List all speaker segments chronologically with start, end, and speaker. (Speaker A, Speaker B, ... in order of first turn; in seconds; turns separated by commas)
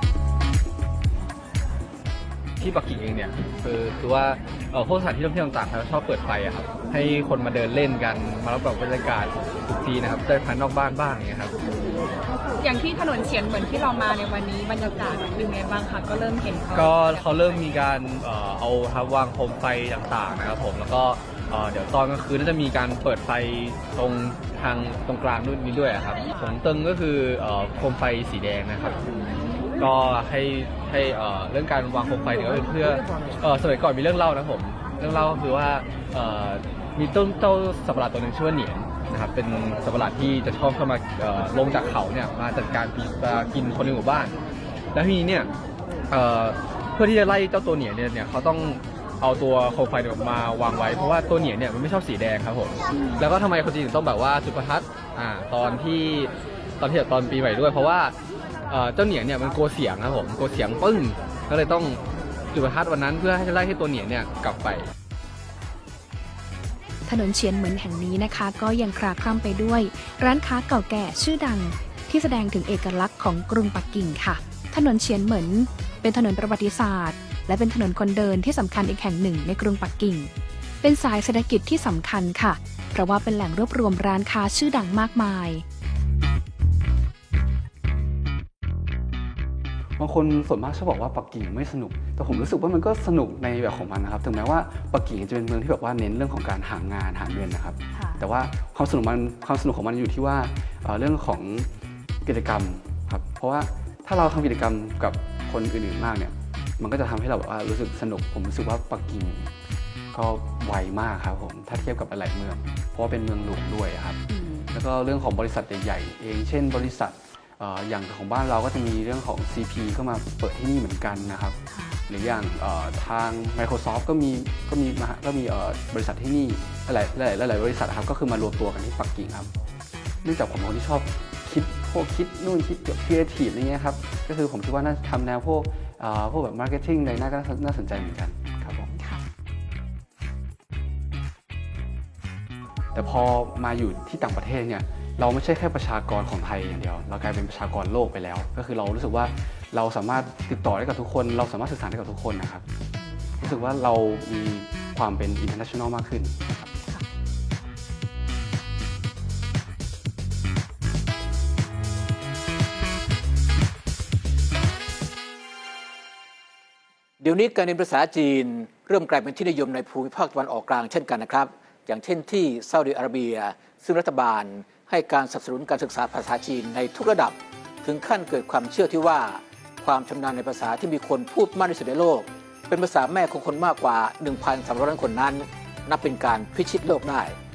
Speaker A: 2.6-11.6, Speaker B: 12.6-16.9, Speaker A: 16.7-29.0, Speaker A: 29.8-44.4, Speaker A: 44.9-45.5, Speaker A: 46.1-58.1, Speaker A: 58.7-62.0, Speaker A: 62.5-64.9, Speaker C: 67.0-80.3, Speaker C: 80.8-85.6, Speaker D: 90.0-101.7, Speaker D: 102.2-109.5, Speaker D: 110.1-129.5, Speaker C: 114.3-114.7, Speaker C: 121.7-122.0, Speaker D: 130.2-138.8, Speaker D: 142.9-152.6, Speaker D: 153.4-156.7, Speaker E: 167.2-187.4